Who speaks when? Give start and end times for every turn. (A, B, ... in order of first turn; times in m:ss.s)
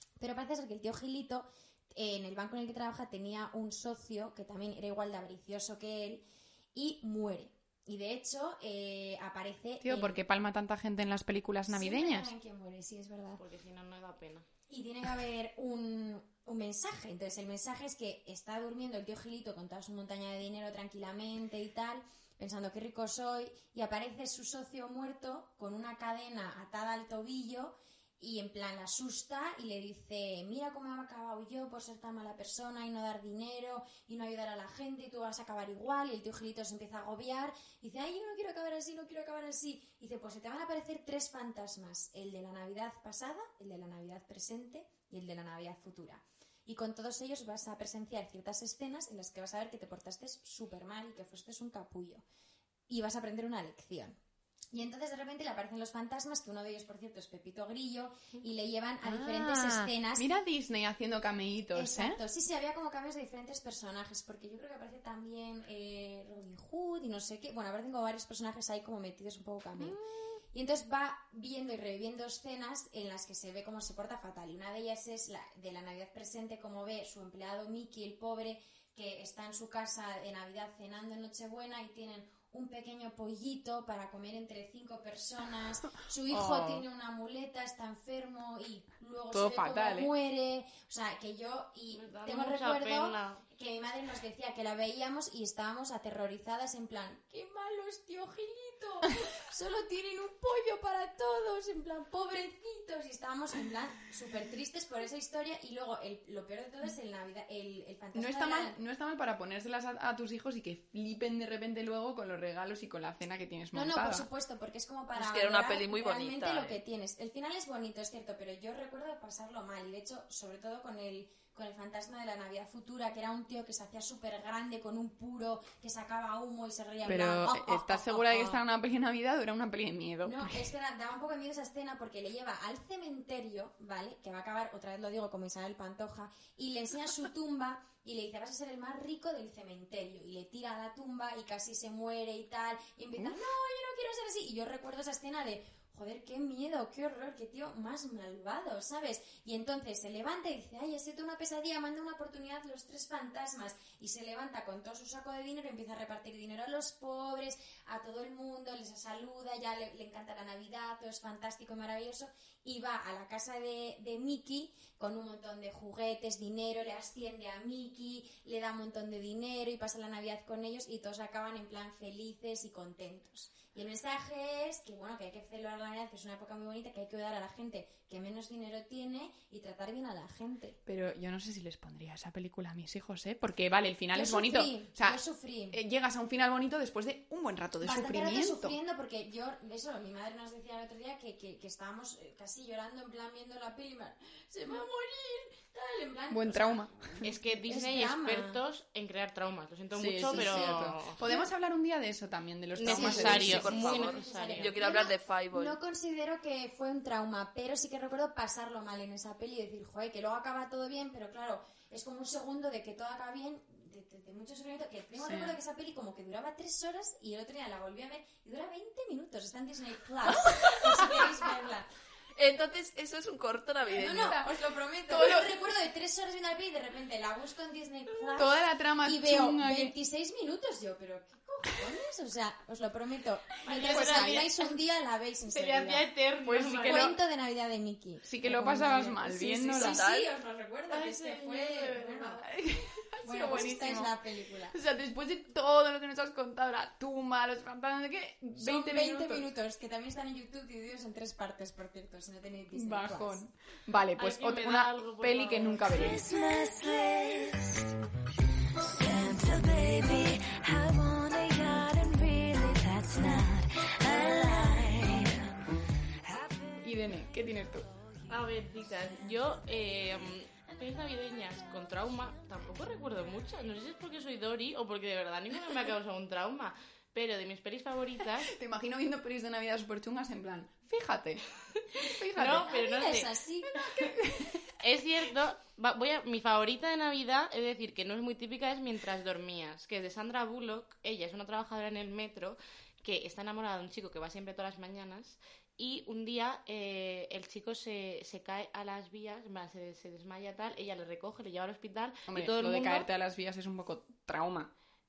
0:00.2-0:06.2 A
0:06.8-0:10.2 A
0:09.8-0:12.3 B
0:11.7-0:13.4 A
0:13.4-0:14.5 C
0:14.7-0:52.2 A
0:52.9-0:54.2 A
0:54.7-1:00.3 A
0:59.0-1:02.2 B
1:01.7-1:10.0 A
1:09.8-1:10.3 B
1:10.5-1:48.8 A
1:26.3-1:26.8 B
1:29.3-1:30.1 B
1:32.0-1:33.4 C
1:48.2-1:54.3 B
1:53.7-2:08.6 A
1:55.2-1:56.8 D
2:07.1-2:10.7 B
2:10.2-3:00.8 A
3:00.9-3:05.2 B
3:04.1-3:05.8 A
3:05.7-3:08.8 B
3:07.8-3:18.6 A
3:16.3-3:17.2 B
3:17.2-3:21.2 C
3:19.9-3:23.7 B
3:20.3-3:21.4 A
3:22.8-3:24.8 C
3:22.8-3:41.9 A
3:23.4-3:25.8 D
3:35.2-3:35.6 B
3:42.4-3:44.4 D
3:44.0-3:56.1 A
3:44.1-3:44.5 B
3:45.1-3:45.6 B
3:48.4-3:50.0 B
3:53.7-3:54.7 C
3:53.8-3:54.5 B
3:55.5-3:57.2 C
3:56.4-3:57.2 B
3:56.7-4:02.5 A
3:58.2-4:00.0 B
3:59.8-4:00.3 D
4:00.9-4:04.2 B
4:03.2-4:04.8 A
4:04.7-4:09.4 B
4:08.6-4:13.5 A
4:12.8-4:16.3 B
4:14.2-4:16.2 C
4:15.9-4:17.8 E
4:18.8-4:25.5 E
4:26.8-4:27.9 B
4:28.3-4:38.6 C
4:38.5-4:41.5 B
4:41.9-4:43.3 C
4:42.0-4:42.8 B
4:42.6-4:43.8 A
4:43.7-4:44.7 B
4:44.8-5:03.1 C
5:02.3-5:04.7 B